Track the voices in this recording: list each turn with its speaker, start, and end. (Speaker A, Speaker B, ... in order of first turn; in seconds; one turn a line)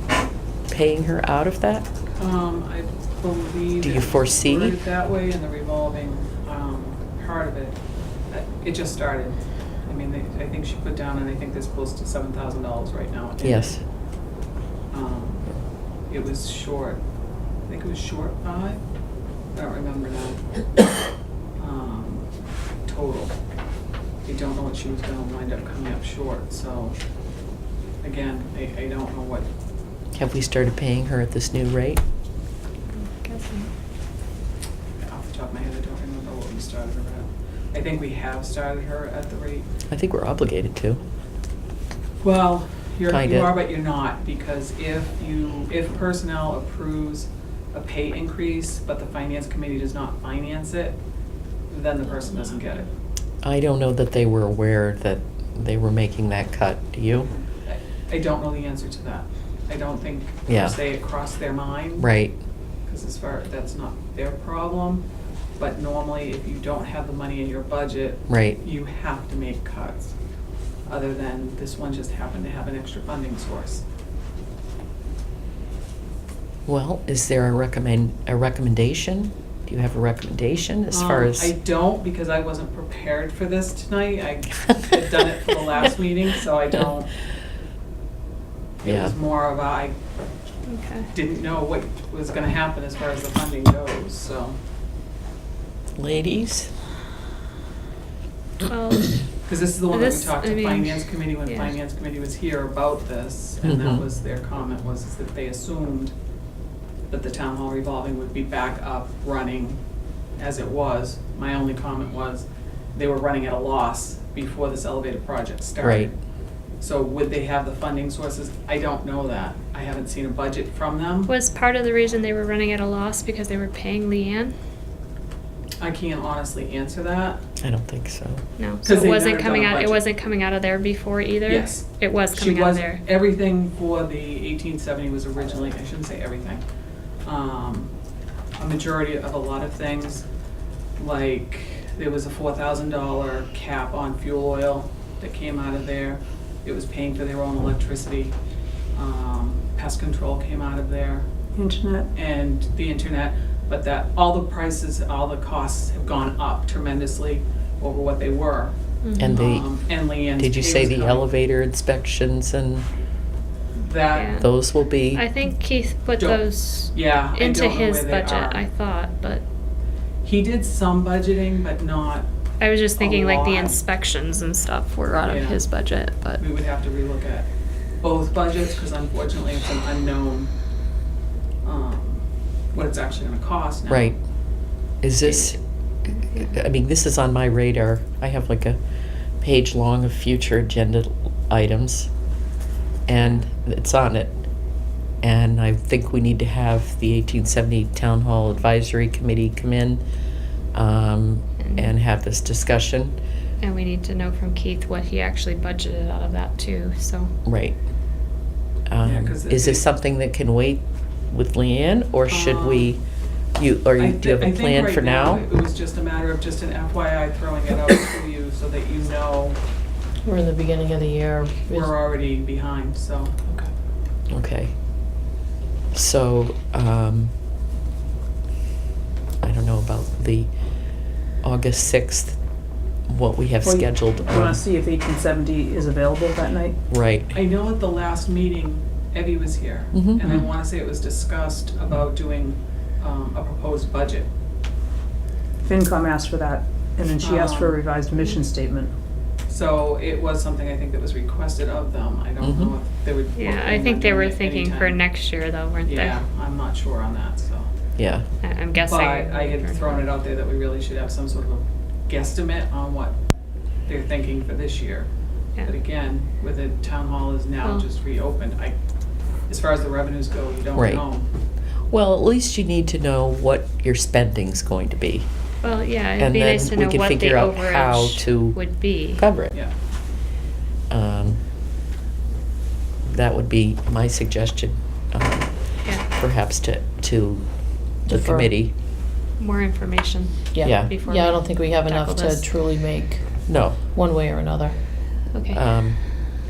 Speaker A: 0.7-1.9
Speaker B: 2.1-7.8
Speaker A: 3.8-4.8
Speaker B: 8.3-13.8
Speaker A: 13.4-13.8
Speaker B: 14.9-15.5
Speaker B: 16.1-17.0
Speaker B: 17.6-18.8
Speaker B: 19.5-20.4
Speaker B: 21.6-22.3
Speaker B: 22.9-23.4
Speaker B: 24.2-26.9
Speaker B: 28.0-29.5
Speaker A: 30.1-32.0
Speaker C: 33.0-33.7
Speaker B: 35.0-39.7
Speaker A: 39.9-41.0
Speaker B: 42.2-51.0
Speaker A: 43.1-43.5
Speaker B: 51.7-52.9
Speaker C: 52.1-52.8
Speaker A: 53.4-57.3
Speaker B: 57.6-62.1
Speaker A: 60.5-60.8
Speaker A: 62.0-62.4
Speaker B: 62.9-65.0
Speaker B: 65.6-70.1
Speaker A: 68.3-68.6
Speaker B: 70.9-73.8
Speaker A: 76.7-81.5
Speaker B: 80.9-87.1
Speaker B: 88.8-89.9
Speaker A: 88.8-89.1
Speaker C: 90.7-91.1
Speaker B: 91.1-94.5
Speaker A: 96.0-96.7
Speaker C: 98.6-99.2
Speaker B: 99.5-106.1
Speaker C: 99.9-101.8
Speaker A: 103.6-104.0
Speaker B: 107.1-109.8
Speaker B: 110.4-116.1
Speaker A: 115.8-116.1
Speaker B: 116.8-121.3
Speaker C: 121.3-124.5
Speaker B: 125.8-127.4
Speaker A: 127.6-128.4
Speaker C: 128.6-133.0
Speaker B: 128.8-130.0
Speaker B: 131.4-136.6
Speaker B: 137.2-137.9
Speaker B: 138.6-140.2
Speaker B: 141.0-148.3
Speaker B: 148.9-151.3
Speaker D: 151.5-152.1
Speaker B: 152.1-158.7
Speaker C: 159.0-159.4
Speaker A: 159.2-162.9
Speaker B: 159.3-161.3
Speaker B: 163.7-164.3
Speaker C: 164.1-169.4
Speaker A: 164.4-165.2
Speaker B: 166.2-168.6
Speaker B: 170.2-172.3
Speaker C: 172.6-176.4
Speaker B: 173.0-173.8
Speaker B: 175.2-175.6
Speaker B: 176.4-177.5
Speaker B: 178.0-180.5
Speaker B: 181.6-184.1
Speaker A: 183.9-184.2
Speaker A: 185.0-185.6
Speaker C: 186.1-186.6
Speaker A: 186.3-188.8
Speaker A: 189.4-192.1
Speaker A: 193.1-194.4
Speaker C: 193.1-193.4
Speaker A: 195.2-200.0
Speaker A: 200.7-203.2
Speaker C: 201.6-201.9
Speaker C: 203.6-207.3
Speaker A: 207.4-207.8
Speaker A: 208.9-213.0
Speaker B: 209.0-209.9
Speaker B: 212.3-212.9
Speaker A: 213.6-215.4
Speaker B: 214.0-219.6
Speaker E: 220.2-221.9
Speaker B: 221.7-223.3
Speaker A: 224.3-224.7
Speaker A: 225.9-227.3
Speaker A: 229.4-232.4
Speaker A: 233.1-234.6
Speaker D: 233.6-236.8
Speaker A: 236.9-237.3
Speaker B: 237.3-244.3
Speaker A: 239.9-240.2
Speaker D: 245.6-248.9
Speaker B: 247.2-247.8
Speaker B: 249.5-255.0
Speaker A: 252.4-252.7
Speaker C: 253.3-256.2
Speaker B: 255.8-257.7
Speaker A: 258.0-258.2
Speaker C: 258.4-260.1
Speaker B: 258.7-263.1
Speaker B: 263.9-265.1
Speaker B: 265.6-268.7
Speaker B: 269.5-271.3
Speaker A: 270.7-271.0
Speaker A: 271.9-275.3
Speaker C: 275.6-279.3
Speaker A: 276.2-279.5
Speaker A: 280.9-281.4
Speaker A: 283.1-288.7
Speaker E: 288.1-288.5
Speaker C: 289.4-292.5
Speaker E: 290.5-294.8
Speaker A: 290.6-290.9
Speaker A: 293.4-293.8
Speaker C: 295.3-295.6
Speaker A: 295.5-296.0